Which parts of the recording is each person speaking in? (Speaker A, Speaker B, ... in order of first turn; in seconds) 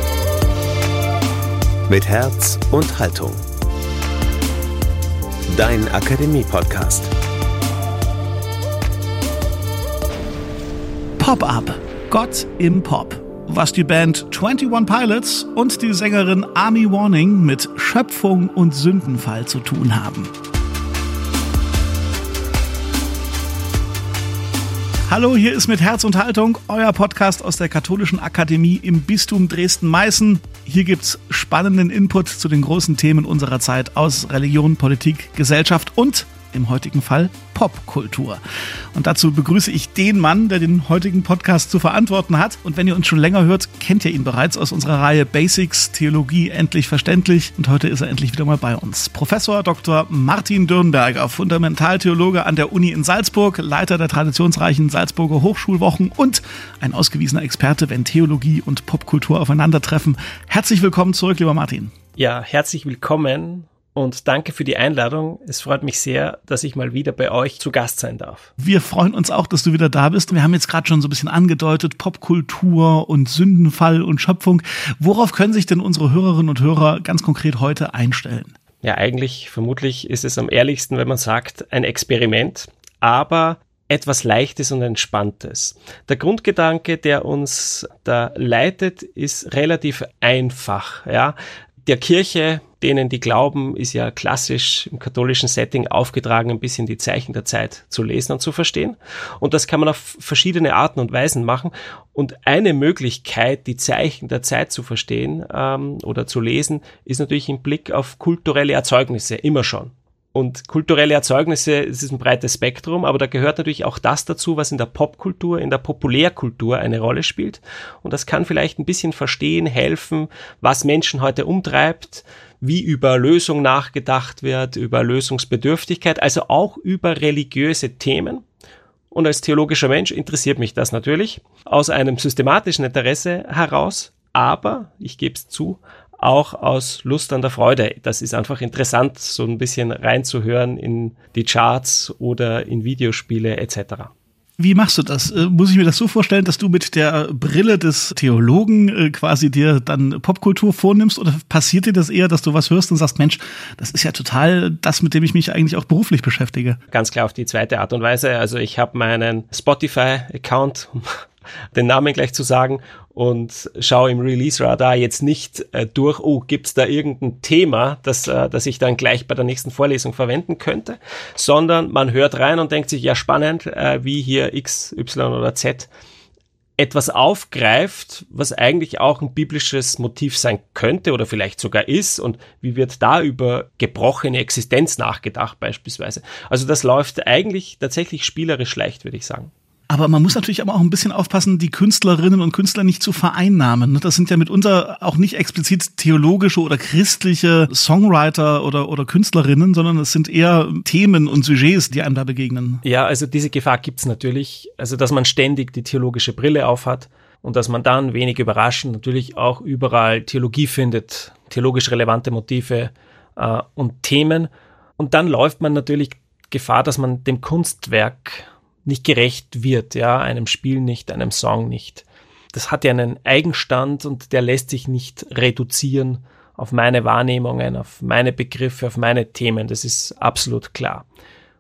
Speaker A: 1.9-3.4, 5.5-7.1
Speaker B: 11.2-20.3, 25.1-38.4, 38.9-61.9, 68.6-78.5, 144.6-156.8, 189.9-202.8
Speaker C: 62.2-68.5, 78.8-128.4, 129.1-144.1, 156.9-161.1, 161.7-175.9, 176.8-189.5, 202.8-231.1